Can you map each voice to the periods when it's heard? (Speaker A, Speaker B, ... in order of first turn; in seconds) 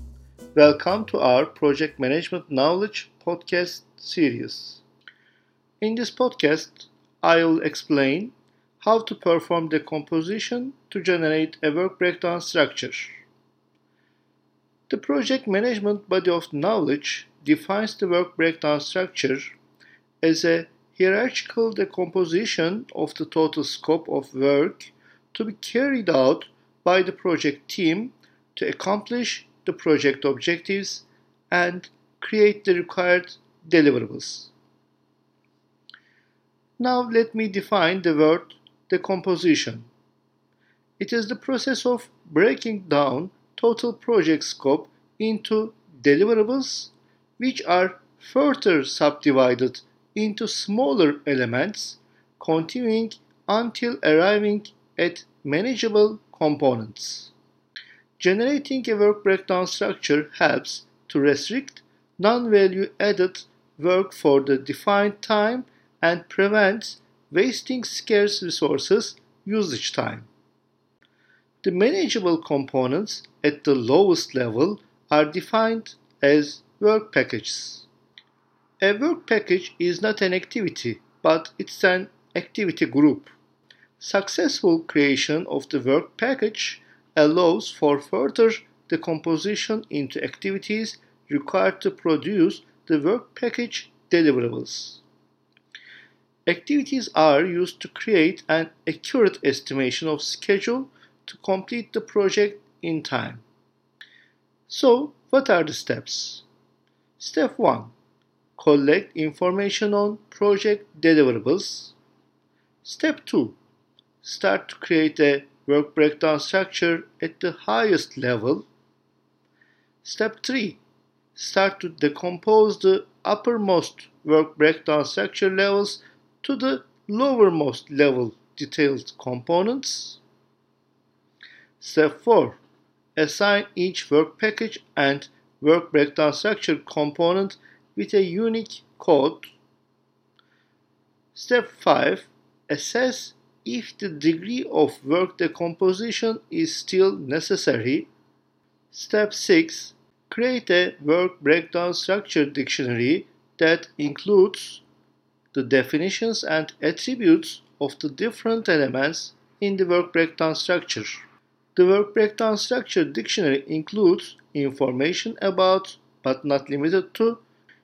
Speaker A: 0.5-4.8, 5.8-13.2, 14.9-19.6, 20.2-34.5, 36.8-39.9, 41.0-57.3, 58.2-70.3, 71.6-77.9, 78.8-83.3, 84.0-95.0, 96.5-103.4, 104.7-106.4, 107.2-107.9, 108.6-111.9, 112.8-113.6, 114.2-118.7, 120.0-120.8, 121.3-130.2, 131.8-132.6, 133.2-139.5, 141.3-148.1, 148.9-154.8, 155.5-161.2, 161.7-167.4